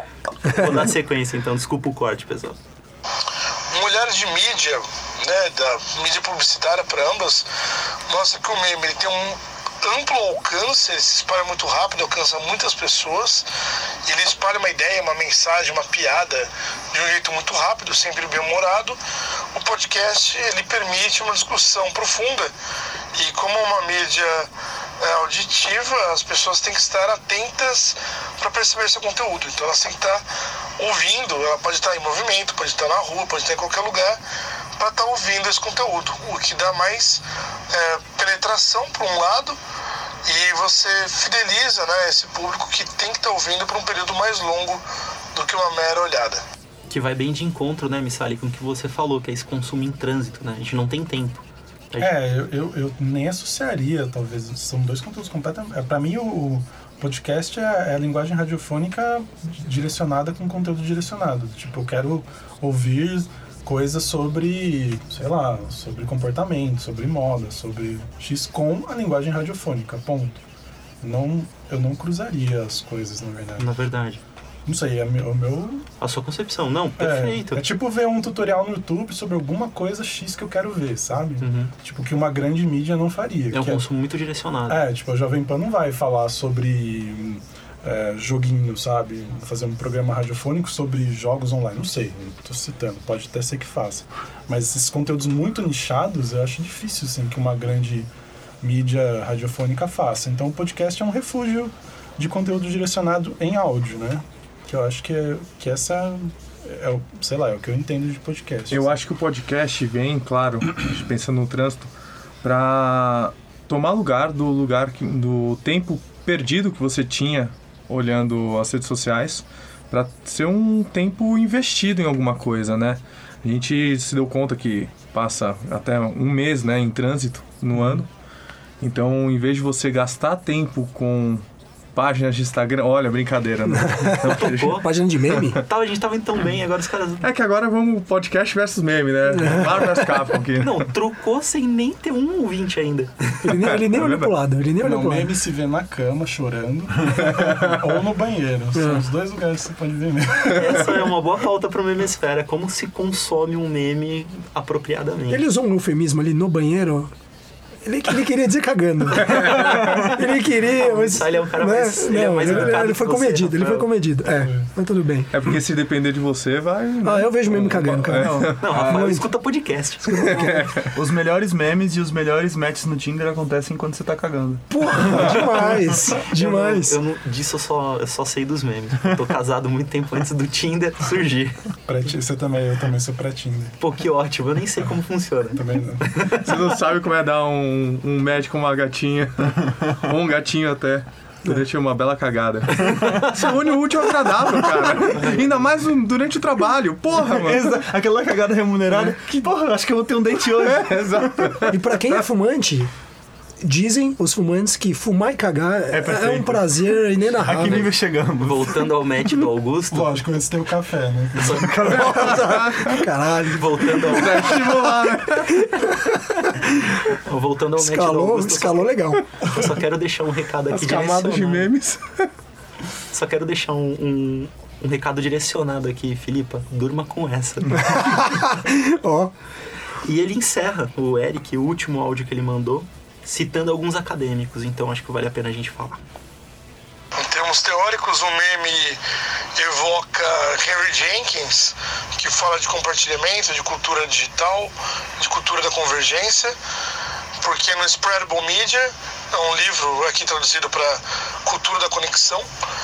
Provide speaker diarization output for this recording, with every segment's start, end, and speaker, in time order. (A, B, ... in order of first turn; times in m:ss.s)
0:00.5-0:00.8 A
0:00.5-0:02.6 B
0:03.7-0:07.5 C
0:08.1-0:13.5 C
0:14.1-0:19.0 C
0:19.5-0:22.5 C
0:23.2-0:24.5 C
0:25.0-0:30.2 C
0:30.8-0:34.2 C
0:34.8-0:39.6 C
0:40.3-0:44.8 C
0:45.4-0:46.4 C
0:46.9-0:52.1 B
0:52.0-1:10.4 D
1:11.0-1:13.7 D
1:13.6-1:14.2 B
1:14.7-1:15.9 D
1:16.0-1:17.6 B
1:17.0-1:23.9 D
1:21.4-1:21.7 B
1:23.5-1:24.8 B
1:24.7-1:38.1 D
1:38.6-1:49.0 D
1:48.7-1:51.9 E
1:52.4-2:08.1 E
2:08.8-2:11.4 E
2:12.0-2:14.8 E
2:13.7-2:15.6 A
2:14.2-2:17.3 B
2:15.4-2:15.6 E
2:17.2-2:20.9 E
2:19.3-2:20.2 A
2:20.6-2:23.4 B
2:23.4-2:25.3 A
2:23.7-2:24.4 E
2:24.8-2:30.8 D
2:27.3-2:27.8 E
2:28.8-2:29.0 A
2:30.5-2:35.4 B
2:35.3-2:37.1 A
2:37.8-2:45.3 A
2:39.2-2:39.8 E
2:39.6-2:40.1 B
2:40.7-2:43.9 B
2:44.4-2:44.6 D
2:45.3-2:49.0 E
2:47.0-2:49.2 A
2:48.1-2:49.2 F
2:48.6-2:50.5 B
2:50.2-2:50.6 A
2:50.3-2:50.9 E
2:50.9-2:54.6 F
2:54.7-2:57.0 A
2:55.1-2:55.5 E
2:56.2-3:01.6 B
3:01.9-3:03.8 D
3:03.8-3:06.5 B
3:05.6-3:06.0 D
3:06.4-3:17.8 E
3:13.2-3:13.5 B
3:15.0-3:15.4 B
3:17.2-3:21.6 F
3:18.9-3:19.5 E
3:20.6-3:22.1 E
3:21.7-3:22.9 A
3:23.6-3:27.9 A
3:25.9-3:28.8 F
3:28.4-3:30.1 B
3:29.9-3:31.7 D
3:31.4-3:31.9 B
3:31.6-3:34.8 A
3:31.9-3:33.1 E
3:33.5-3:34.6 B
3:34.1-3:35.6 E
3:35.6-3:36.8 A
3:37.2-3:41.7 B
3:37.8-3:39.2 A
3:40.7-3:42.3 E
3:43.1-3:47.9 B
3:47.8-3:49.3 A
3:50.0-3:56.0 B
3:57.2-3:59.0 C
3:59.6-4:06.6 C
4:07.4-4:12.5 C